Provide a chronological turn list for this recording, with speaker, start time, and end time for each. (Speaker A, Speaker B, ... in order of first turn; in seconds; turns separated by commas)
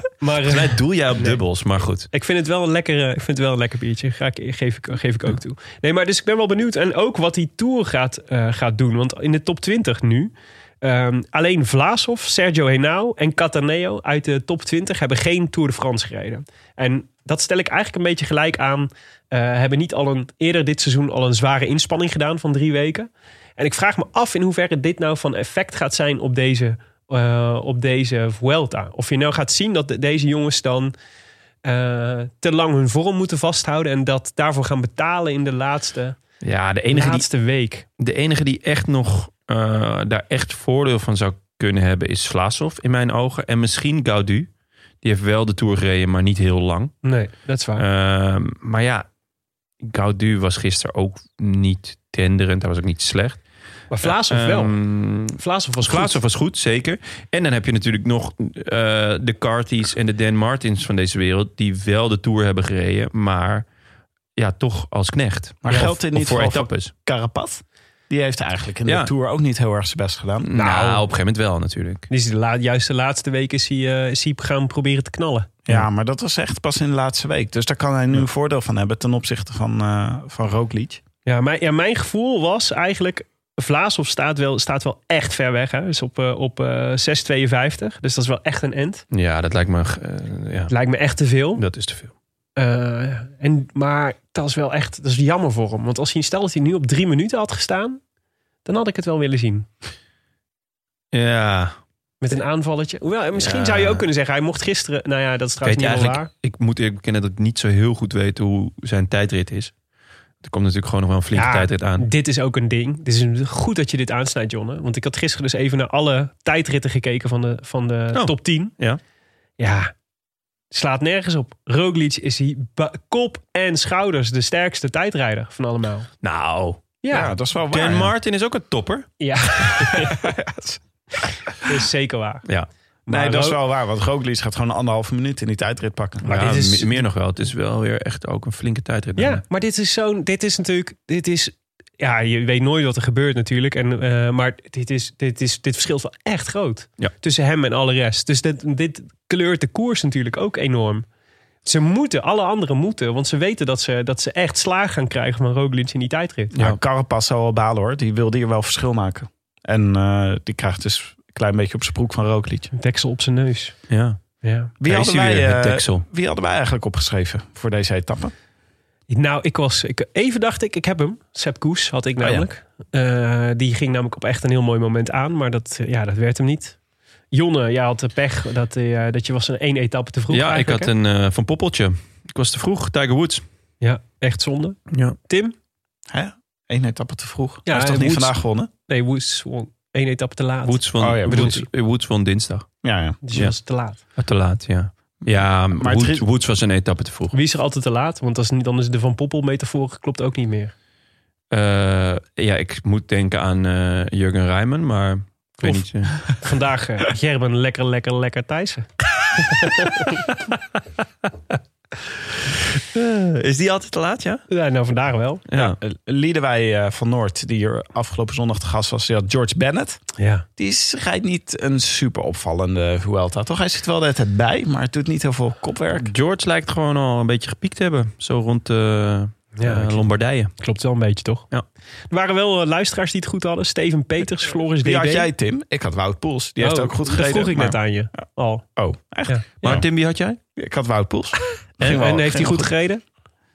Speaker A: 0.2-1.4, Speaker B: 0.5-2.1, Speaker A: 2.1-30.9, Speaker A: 31.6-36.2, Speaker B: 36.4-37.3, Speaker A: 36.9-37.9, Speaker B: 38.0-44.5, Speaker B: 45.0-47.0, Speaker A: 47.0-47.8, Speaker B: 47.8-49.0, Speaker B: 49.8-53.5, Speaker A: 53.9-56.2, Speaker B: 54.0-63.7, Speaker B: 64.4-66.9, Speaker C: 65.6-70.5, Speaker A: 65.7-66.0, Speaker B: 70.5-72.1, Speaker A: 70.5-71.0, Speaker A: 72.1-75.8, Speaker C: 75.7-81.0, Speaker A: 81.3-89.0, Speaker B: 89.1-90.7, Speaker A: 90.7-91.6, Speaker B: 91.5-92.1, Speaker A: 92.6-98.0, Speaker A: 98.6-99.7, Speaker B: 101.1-101.8, Speaker A: 102.2-106.3, Speaker B: 103.3-104.0, Speaker B: 105.6-109.7, Speaker B: 110.4-112.1, Speaker A: 111.3-118.7, Speaker B: 118.1-119.0, Speaker A: 119.6-119.9, Speaker A: 120.7-126.1, Speaker B: 126.2-126.8, Speaker A: 127.0-127.3, Speaker C: 127.1-128.1, Speaker B: 127.7-129.7, Speaker A: 129.2-130.1, Speaker C: 130.1-130.8, Speaker A: 131.6-132.4, Speaker A: 133.1-133.6, Speaker C: 133.1-136.3, Speaker B: 136.2-139.4, Speaker A: 136.3-137.0, Speaker A: 139.2-151.1, Speaker A: 151.6-156.5, Speaker B: 156.5-156.8, Speaker C: 156.6-162.7, Speaker A: 162.7-163.8, Speaker B: 163.9-166.1, Speaker A: 164.4-164.7, Speaker C: 164.8-168.3, Speaker A: 169.1-176.8, Speaker C: 172.2-172.5, Speaker A: 177.3-180.9, Speaker B: 180.3-183.4, Speaker A: 183.8-185.5, Speaker B: 184.9-185.2, Speaker C: 186.1-188.7, Speaker A: 187.7-191.7, Speaker B: 190.7-192.7, Speaker C: 191.0-191.6, Speaker C: 192.8-193.2, Speaker A: 193.2-194.0, Speaker B: 194.2-197.3, Speaker C: 195.3-196.2, Speaker A: 197.3-200.7, Speaker B: 201.5-206.3, Speaker A: 205.6-210.1, Speaker B: 212.8-214.4, Speaker A: 214.5-215.4, Speaker B: 215.5-215.8, Speaker C: 215.6-220.1, Speaker A: 220.2-220.4, Speaker C: 220.6-226.1, Speaker B: 225.9-230.5, Speaker A: 229.6-231.5, Speaker A: 232.1-235.3, Speaker C: 234.8-238.2, Speaker A: 236.6-238.6, Speaker C: 238.8-239.7, Speaker A: 239.3-239.8, Speaker B: 239.6-240.4, Speaker C: 240.6-242.7, Speaker A: 241.9-243.0